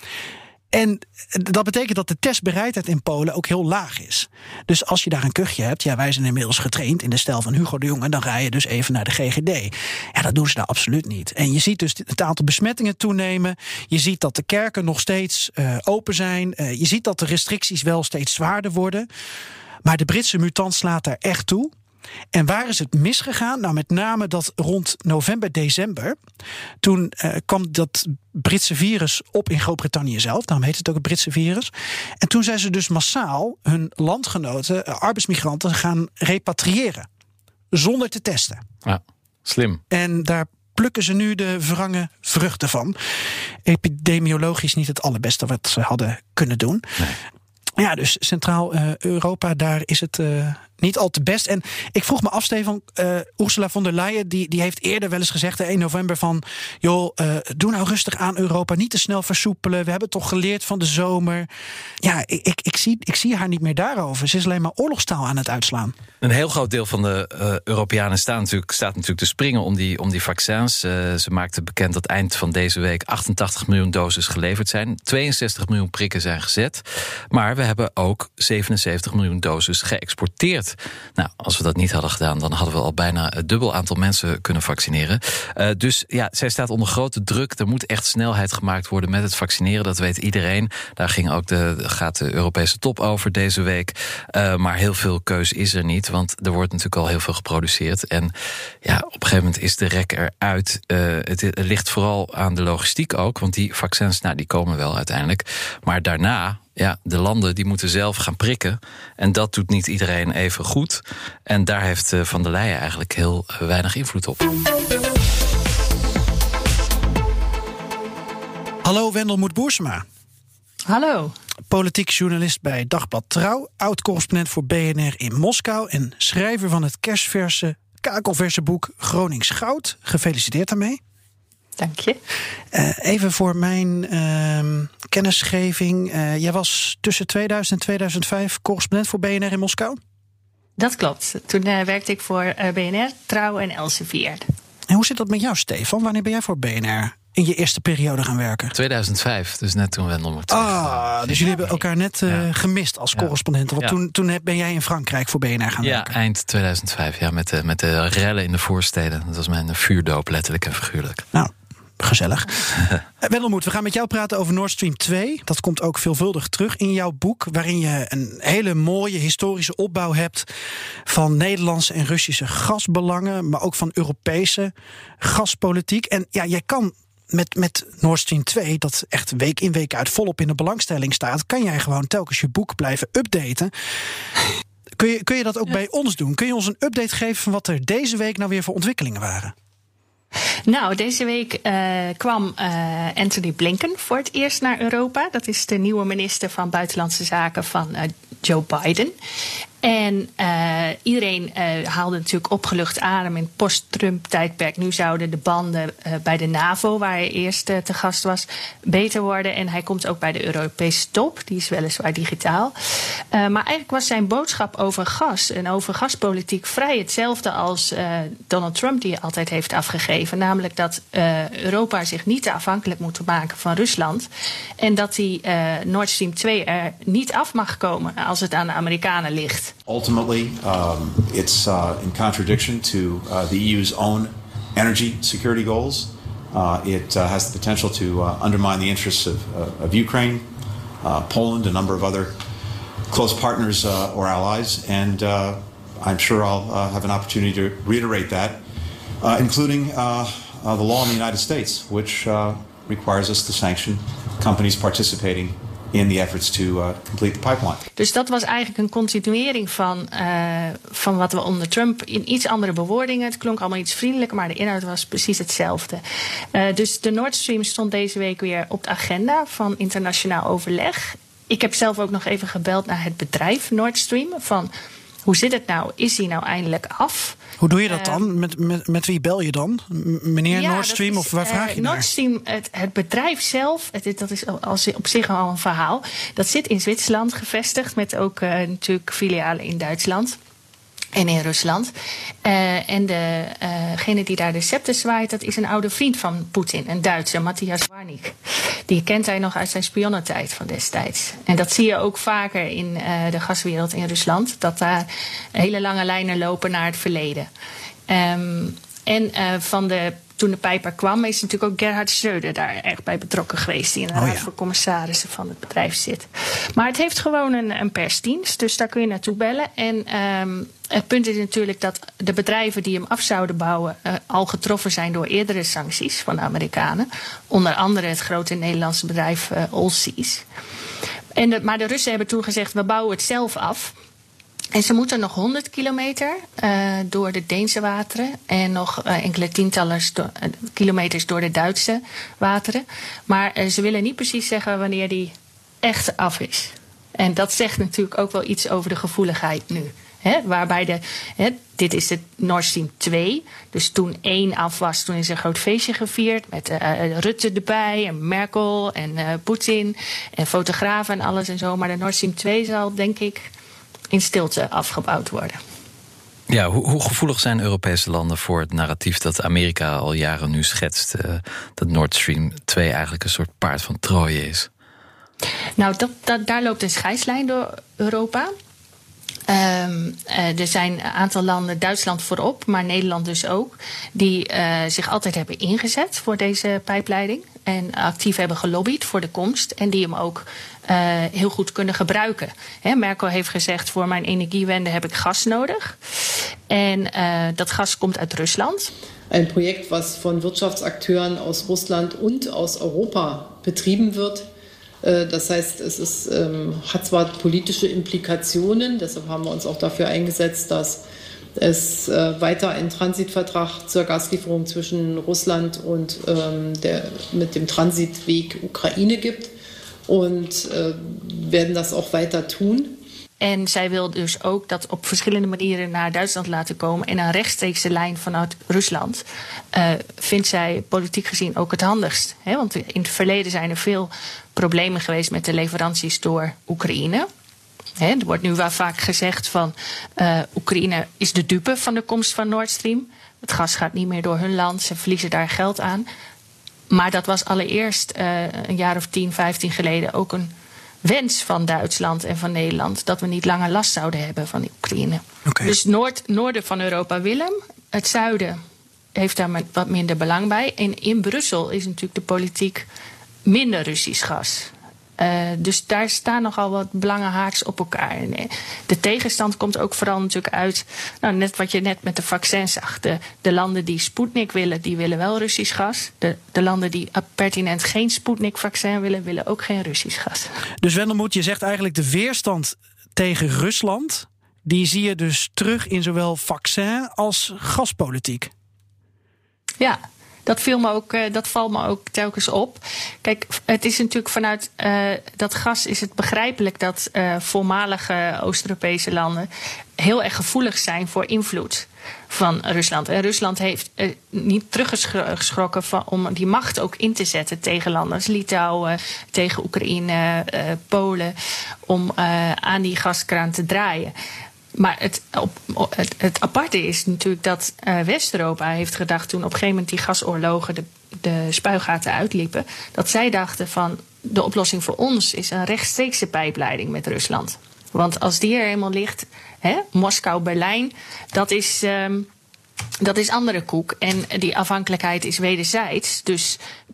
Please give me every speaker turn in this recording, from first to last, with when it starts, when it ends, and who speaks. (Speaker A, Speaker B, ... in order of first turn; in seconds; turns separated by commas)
Speaker A: 0.7-19.1, Speaker A: 19.8-21.7, Speaker A: 22.3-26.2, Speaker A: 26.8-37.1, Speaker A: 37.7-38.6, Speaker B: 38.9-39.8, Speaker A: 39.9-43.0, Speaker A: 43.6-46.8, Speaker A: 47.8-61.5, Speaker A: 62.0-66.0, Speaker B: 66.2-98.3, Speaker B: 98.8-114.5, Speaker A: 118.8-120.0, Speaker C: 120.9-121.3, Speaker A: 121.7-131.0, Speaker C: 131.8-132.2, Speaker A: 132.7-140.0, Speaker C: 140.8-144.4, Speaker A: 144.9-148.7, Speaker B: 148.7-152.5, Speaker A: 150.5-156.2, Speaker B: 153.2-153.9, Speaker B: 155.8-161.2, Speaker A: 161.3-162.7, Speaker A: 163.2-170.5, Speaker A: 171.1-183.7, Speaker A: 185.0-189.5, Speaker C: 190.7-199.1, Speaker C: 199.8-212.7, Speaker C: 213.3-224.3, Speaker C: 224.8-229.7, Speaker D: 229.9-240.5, Speaker D: 241.0-242.4, Speaker D: 243.1-248.6, Speaker D: 249.2-257.8, Speaker C: 258.0-266.0, Speaker C: 266.5-274.7, Speaker C: 275.3-277.4, Speaker A: 277.6-282.1, Speaker C: 277.9-278.2, Speaker C: 280.5-290.4, Speaker C: 291.1-291.9, Speaker C: 292.4-298.4, Speaker C: 298.9-307.5, Speaker C: 308.1-330.4, Speaker A: 314.1-314.5, Speaker C: 331.4-333.9, Speaker C: 334.7-363.5, Speaker C: 364.1-365.6, Speaker B: 366.5-374.7, Speaker C: 375.8-378.5, Speaker C: 379.5-396.0, Speaker C: 396.7-398.9, Speaker E: 399.3-404.5, Speaker E: 405.0-411.0, Speaker E: 411.6-419.5, Speaker E: 420.1-423.0, Speaker C: 423.4-437.3, Speaker C: 438.0-446.1, Speaker C: 446.9-450.5, Speaker C: 451.0-458.6, Speaker A: 455.5-455.7, Speaker C: 459.1-462.9, Speaker C: 463.5-480.5, Speaker A: 480.8-488.5, Speaker C: 489.8-499.5, Speaker C: 500.0-511.3, Speaker C: 511.9-514.1, Speaker C: 514.8-532.3, Speaker C: 533.0-536.6